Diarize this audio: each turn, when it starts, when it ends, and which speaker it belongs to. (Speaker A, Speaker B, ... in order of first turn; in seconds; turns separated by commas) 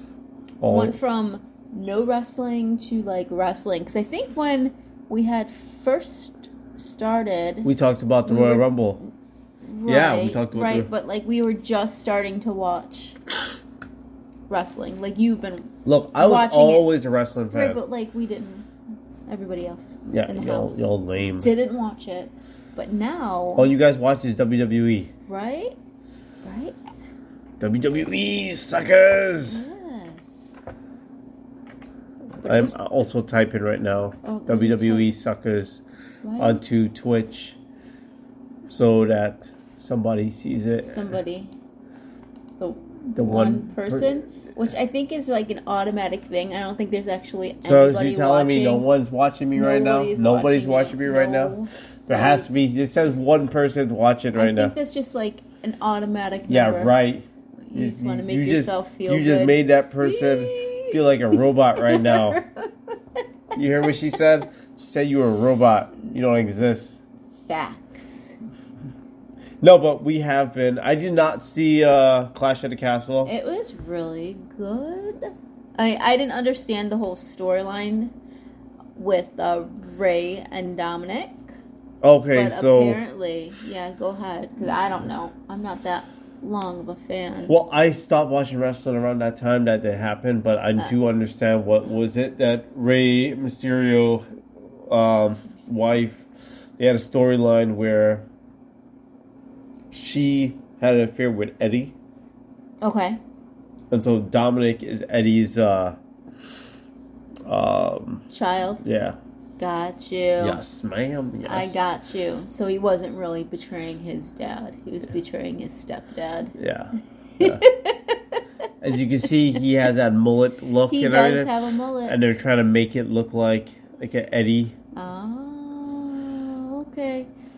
Speaker A: 0.6-1.0, Speaker B: 0.7-7.7, Speaker A: 7.7-9.0, Speaker B: 8.2-9.1, Speaker B: 9.6-13.2, Speaker A: 9.9-10.9, Speaker B: 14.5-16.9, Speaker A: 15.8-17.8, Speaker B: 17.5-18.7, Speaker B: 19.3-23.7, Speaker A: 20.1-21.5, Speaker A: 23.6-25.1, Speaker B: 25.3-25.8, Speaker B: 26.4-27.1, Speaker A: 27.6-29.6, Speaker B: 29.5-30.6, Speaker A: 32.4-35.8, Speaker B: 32.4-32.8, Speaker B: 34.2-35.1, Speaker B: 36.2-36.6, Speaker A: 36.4-37.6, Speaker A: 38.7-41.2, Speaker B: 40.8-41.5, Speaker B: 42.6-48.9, Speaker A: 43.2-44.1, Speaker A: 47.6-54.8, Speaker B: 49.5-52.5, Speaker B: 54.4-56.9, Speaker A: 56.5-62.4, Speaker B: 57.7-63.0, Speaker B: 63.5-64.1, Speaker A: 63.6-67.0, Speaker B: 67.5-68.3, Speaker A: 69.6-73.3, Speaker B: 73.3-78.1, Speaker B: 79.0-81.6, Speaker A: 82.0-83.0, Speaker B: 82.3-87.5, Speaker A: 87.5-94.3, Speaker A: 94.9-96.3, Speaker A: 96.8-98.3, Speaker A: 99.9-102.0, Speaker B: 102.8-103.2, Speaker A: 103.9-106.0, Speaker A: 107.5-108.3, Speaker B: 108.3-108.8, Speaker A: 108.8-109.2, Speaker B: 109.6-110.6, Speaker A: 110.4-111.8, Speaker B: 111.5-116.5, Speaker A: 116.6-117.7, Speaker B: 117.4-118.4, Speaker A: 118.8-121.5, Speaker B: 120.9-122.2, Speaker A: 122.0-124.8, Speaker B: 124.9-127.3